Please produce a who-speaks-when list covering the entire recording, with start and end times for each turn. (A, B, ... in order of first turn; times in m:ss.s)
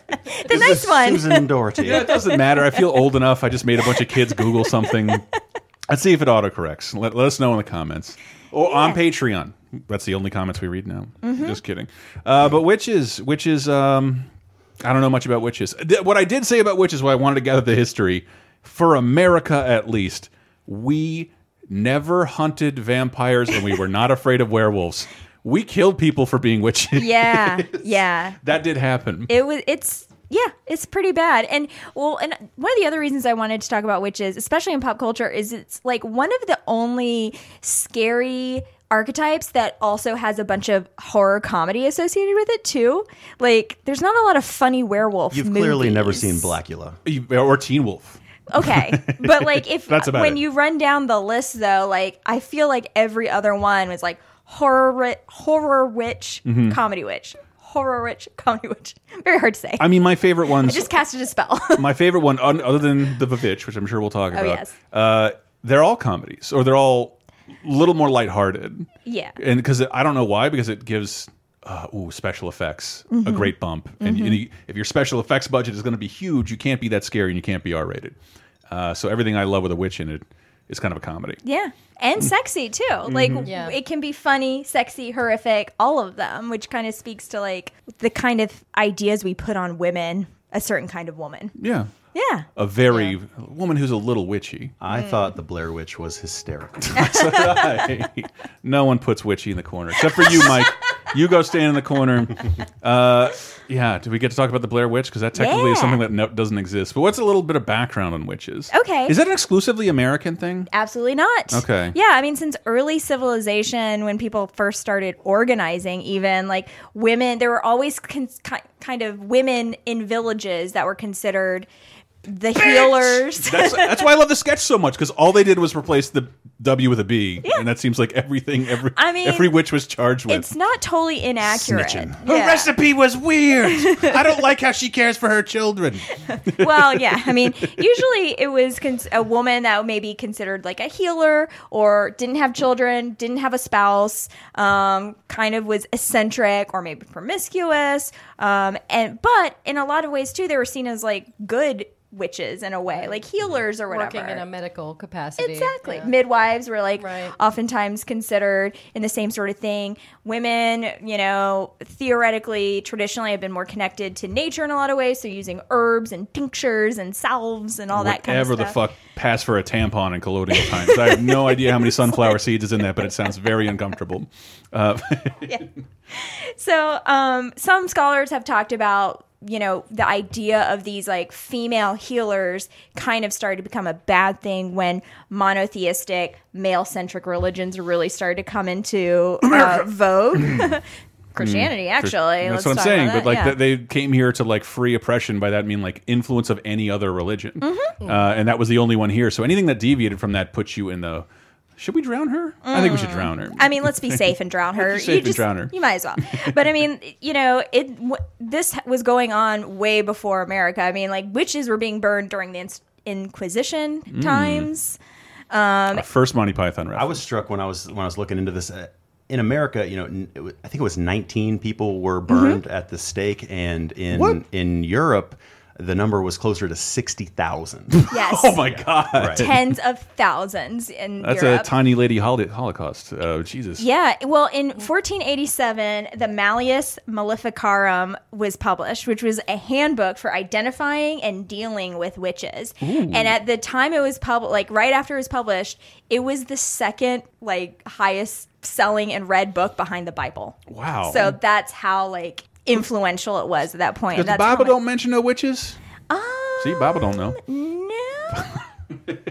0:00.3-0:02.2 A
0:00.5-0:02.1 B
0:01.8-0:05.2 C
0:05.9-0:14.3 C
0:08.6-0:09.0 A
0:11.2-0:11.6 A
0:14.8-0:27.8 C
0:26.9-0:28.4 A
0:28.4-0:29.3 C
0:29.3-0:46.5 A
0:45.3-0:47.0 B
0:47.0-0:50.4 C
0:48.5-1:00.0 A
0:56.4-0:56.8 C
0:59.8-1:00.9 C
1:00.5-1:01.9 A
1:01.7-1:18.2 C
1:04.3-1:04.7 A
1:09.0-1:09.4 A
1:13.1-1:14.4 A
1:18.7-1:21.4 C
1:21.4-1:31.6 A
1:23.1-1:23.5 C
1:23.4-1:23.8 D
1:31.6-1:31.9 C
1:32.1-1:33.1 A
1:32.6-1:34.7 C
1:34.8-1:37.0 B
1:34.9-1:35.2 A
1:36.8-1:50.7 C
1:37.0-1:37.8 A
1:40.2-1:40.6 A
1:45.3-1:46.0 A
1:48.7-1:49.2 A
1:50.7-2:01.7 A
1:51.5-1:52.0 C
2:02.3-2:04.0 A
2:02.6-2:10.5 C
2:08.9-2:09.5 A
2:10.3-2:12.7 A
2:11.4-2:12.2 B
2:12.2-2:17.8 C
2:13.7-2:14.2 A
2:16.3-2:34.4 A
2:33.0-2:33.2 D
2:33.9-2:36.1 D
2:35.4-2:48.8 A
2:37.0-2:37.3 D
2:47.9-2:55.6 C
2:50.5-2:52.4 A
2:55.5-3:10.8 A
3:09.4-3:10.7 C
3:11.3-3:13.6 A
3:11.4-3:21.2 C
3:17.6-3:17.9 A
3:21.8-3:24.2 C
3:22.6-3:35.0 A
3:24.8-3:25.7 C
3:34.1-3:34.7 C
3:35.5-3:36.0 A
3:35.9-3:37.2 C
3:36.9-3:48.1 B
3:42.3-3:42.6 A
3:44.1-3:44.4 C
3:48.0-3:49.6 C
3:48.1-3:48.7 A
3:49.1-3:49.5 B
3:49.3-3:51.7 A
3:51.2-3:53.8 C
3:53.8-4:14.8 A
4:02.8-4:03.4 C
4:10.7-4:11.4 C
4:14.1-4:15.8 C
4:16.1-4:18.4 A
4:16.6-4:17.4 C